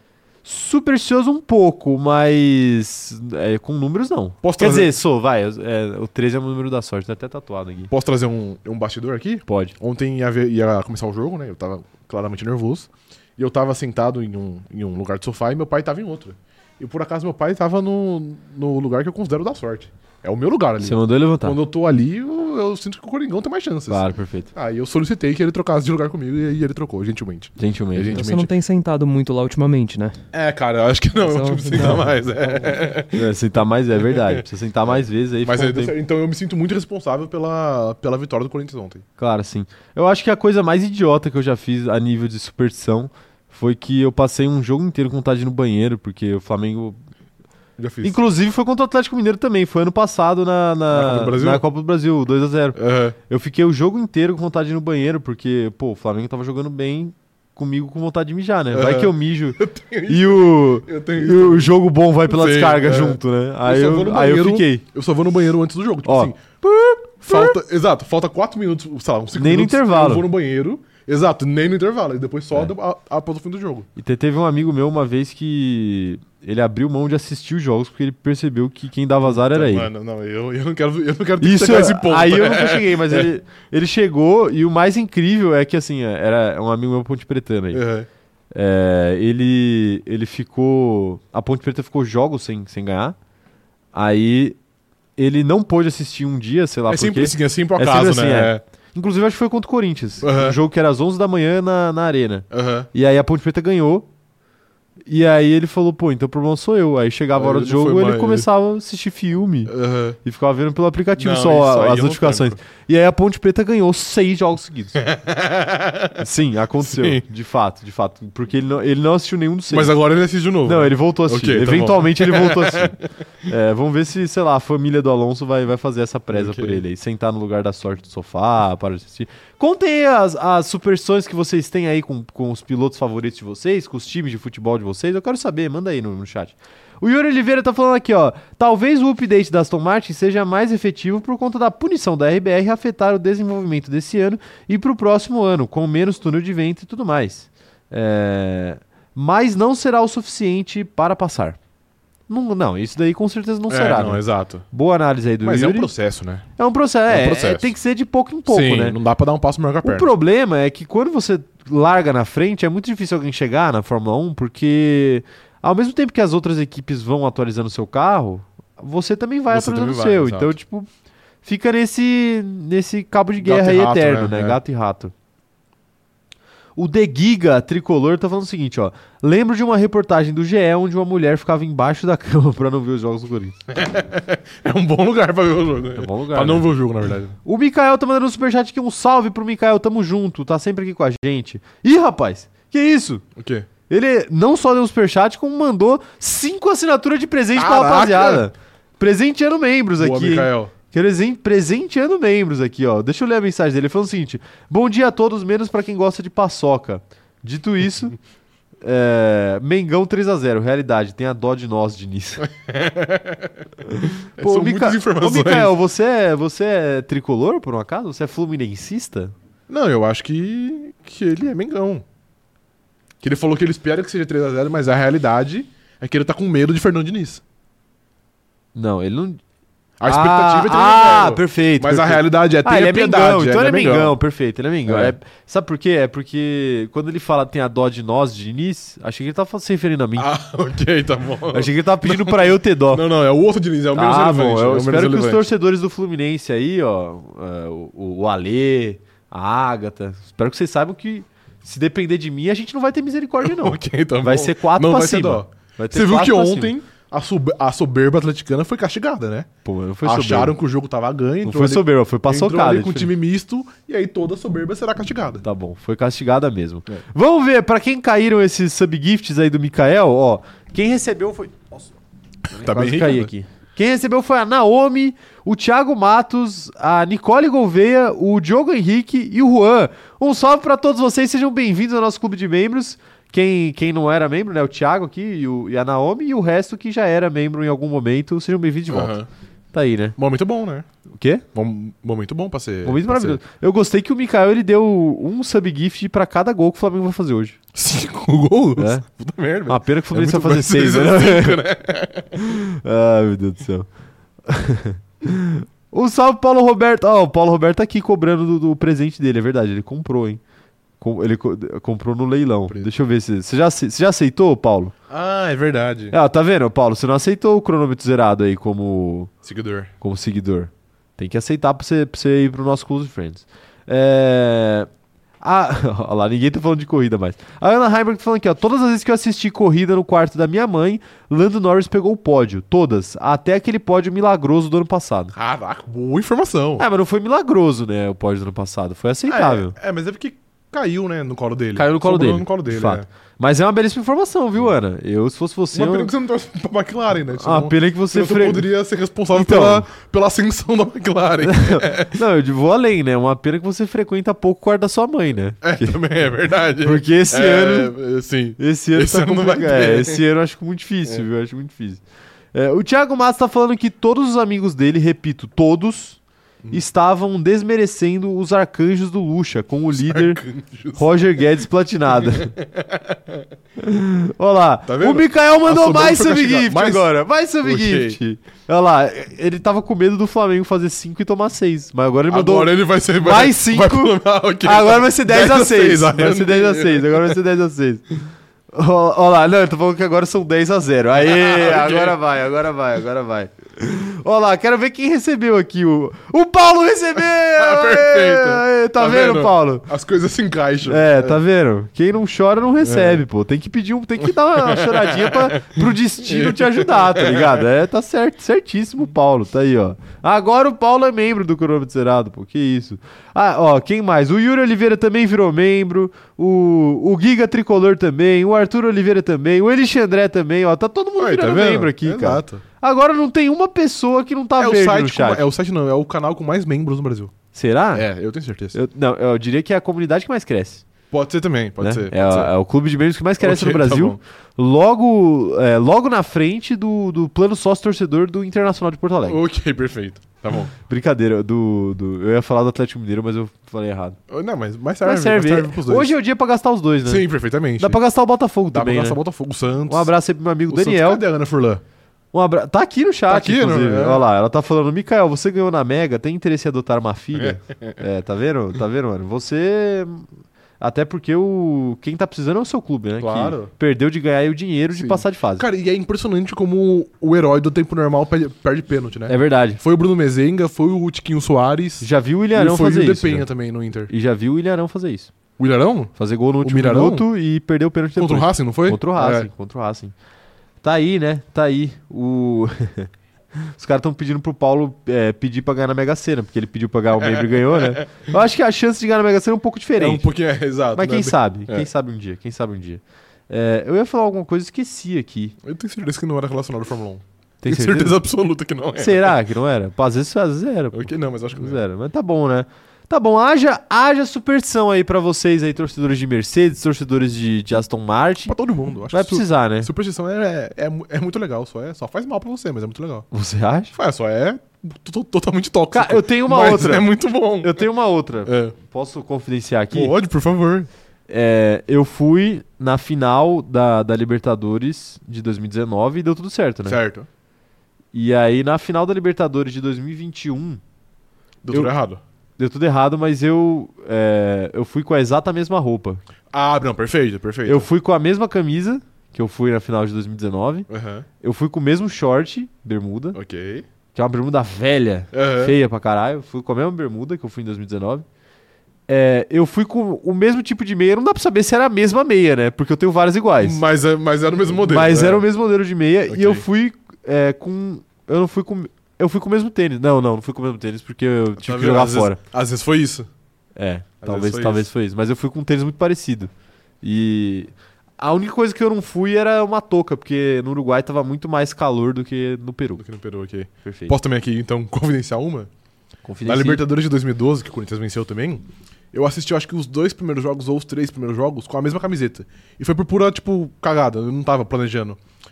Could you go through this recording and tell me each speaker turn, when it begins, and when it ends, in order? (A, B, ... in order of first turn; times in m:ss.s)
0:00.4-0:07.9 A
0:04.4-0:04.9 B
0:07.9-0:28.5 B
0:09.5-0:09.7 A
0:20.8-0:21.6 A
0:23.9-0:24.5 A
0:27.6-0:28.3 A
0:28.1-0:30.2 C
0:30.3-0:33.3 B
0:31.2-0:32.1 C
0:33.1-0:35.9 A
0:34.1-0:39.0 B
0:39.2-0:47.0 A
0:47.8-0:48.2 B
0:48.0-1:04.8 A
0:50.9-0:51.6 B
0:52.8-0:53.2 B
0:58.7-1:01.7 B
1:02.3-1:06.6 B
1:06.0-1:07.5 A
1:07.2-1:13.9 B
1:09.3-1:10.2 A
1:14.0-1:19.9 A
1:19.2-1:23.3 B
1:21.4-1:27.8 A
1:27.7-1:28.1 B
1:28.5-1:33.2 A
1:33.9-1:34.6 A
1:35.2-1:44.1 A
1:36.9-1:38.6 B
1:40.2-1:40.6 B
1:42.5-1:42.9 B
1:45.0-1:55.0 A
1:47.3-1:48.5 B
1:49.7-1:50.2 B
1:51.2-1:52.6 B
1:55.0-1:56.2 B
1:56.2-2:00.0 A
1:56.8-1:57.2 B
1:59.7-2:03.0 B
2:00.6-2:31.6 A
2:06.3-2:06.8 B
2:32.3-2:35.9 A
2:33.7-2:34.6 B
2:35.4-2:36.5 B
2:36.6-2:39.0 A
2:37.1-2:37.7 B
2:38.5-2:40.1 B
2:39.8-2:50.9 A
2:49.5-2:50.6 B
2:51.4-2:55.1 A
2:53.4-2:54.6 B
2:56.8-3:03.6 A
3:03.7-3:07.4 B
3:06.0-3:06.7 A
3:07.4-3:13.2 A
3:13.4-3:13.7 B
3:13.9-3:28.2 A
3:17.5-3:18.5 B
3:20.0-3:20.7 B
3:28.8-3:32.4 A
3:32.4-3:33.5 B
3:33.8-3:39.3 A
3:34.4-3:35.8 B
3:39.7-3:42.0 B
3:43.2-3:47.4 B
3:48.7-3:49.4 A
3:50.0-3:54.2 B
3:50.0-4:00.3 A
3:54.8-3:55.1 B
4:00.2-4:05.5 B
4:01.5-4:03.0 A
4:03.9-4:16.7 A
4:13.4-4:19.5 B
4:19.6-4:20.6 A
4:20.0-4:25.4 B
4:21.4-4:23.1 A
4:25.4-4:31.9 A
4:32.5-4:33.3 B
4:32.6-4:49.2 A
4:48.9-4:49.3 B
4:49.7-4:50.2 A
4:50.2-4:50.9 B
4:51.2-4:51.4 A
4:51.5-4:53.4 B
4:52.8-4:57.6 A
4:57.7-5:02.4 B
4:58.8-4:59.0 A
4:59.7-5:01.6 A
5:02.4-5:03.9 A
5:04.4-5:10.4 A
5:11.0-5:14.9 A
5:15.1-5:16.2 B
5:16.1-5:19.3 A
5:19.4-5:19.9 B
5:20.0-5:24.9 A
5:25.4-5:35.3 A
5:35.3-5:36.8 B
5:36.8-5:39.7 A
5:39.3-5:43.1 B
5:41.8-5:46.1 A
5:45.7-5:52.2 B
5:47.3-5:48.7 A
5:49.3-5:49.9 A
5:51.4-5:56.0 A
5:55.6-6:00.2 B
5:56.8-5:57.9 A
5:58.6-6:02.0 A
6:02.5-6:06.2 A
6:06.7-6:10.4 A
6:09.9-6:11.0 B
6:11.0-6:12.5 A
6:12.1-6:13.4 B
6:13.8-6:28.0 A
6:14.9-6:18.2 B
6:22.3-6:27.4 B
6:28.7-6:39.9 A
6:31.1-6:32.2 B
6:37.3-6:41.4 B
6:40.9-7:05.4 A
6:42.8-6:43.2 B
6:44.2-6:47.6 B
7:01.2-7:02.6 B
7:04.6-7:07.3 B
7:07.5-7:08.0 A
7:07.9-7:08.8 B
7:08.7-7:10.8 A
7:11.1-7:12.5 B
7:11.8-7:19.4 A
7:13.4-7:14.2 B
7:19.3-7:20.7 B
7:20.9-7:24.2 A
7:24.3-7:26.1 B
7:25.0-7:27.2 A
7:27.0-7:28.0 B
7:27.8-7:29.2 A
7:28.7-7:30.1 B
7:29.9-7:31.2 A
7:30.7-7:31.8 B
7:32.3-7:40.3 A
7:33.3-7:34.2 B
7:37.3-7:37.9 B
7:40.8-7:45.6 A
7:43.2-7:43.7 B
7:44.9-7:54.1 B
7:49.3-7:49.8 A
7:52.0-7:53.5 A
7:54.1-7:55.3 A
7:55.6-7:57.2 B
7:56.2-8:00.1 A
7:58.2-7:59.5 B
8:00.8-8:03.1 A
8:03.6-8:10.3 A
8:07.2-8:08.1 B
8:10.0-8:11.9 B
8:10.9-8:15.5 A
8:15.6-8:19.4 B
8:17.6-8:18.2 A
8:19.0-8:28.5 A
8:20.9-8:21.8 B
8:28.4-8:33.2 B
8:29.1-8:29.9 A
8:33.3-8:33.9 A
8:33.9-8:37.9 B
8:35.9-8:37.1 A
8:37.6-8:40.1 A
8:38.4-8:38.8 B
8:39.9-8:40.9 B
8:41.3-8:47.0 A
8:46.8-8:47.3 B
8:48.1-8:50.8 A
8:51.6-8:52.2 B
8:52.6-8:56.2 A
8:56.5-8:57.9 B
8:57.6-9:00.9 A
9:00.9-9:01.3 B
9:01.4-9:03.4 A
9:03.3-9:03.8 B
9:04.1-9:08.2 A
9:05.3-9:05.7 B
9:09.1-9:13.8 A
9:13.6-9:15.4 B
9:14.8-9:22.4 A
9:16.3-9:16.6 B
9:21.6-9:23.3 B
9:23.8-9:26.5 A
9:24.2-9:24.9 B
9:27.0-9:33.0 A
9:33.0-9:35.7 B
9:33.8-9:34.2 A
9:36.2-9:36.8 A
9:36.4-9:45.2 B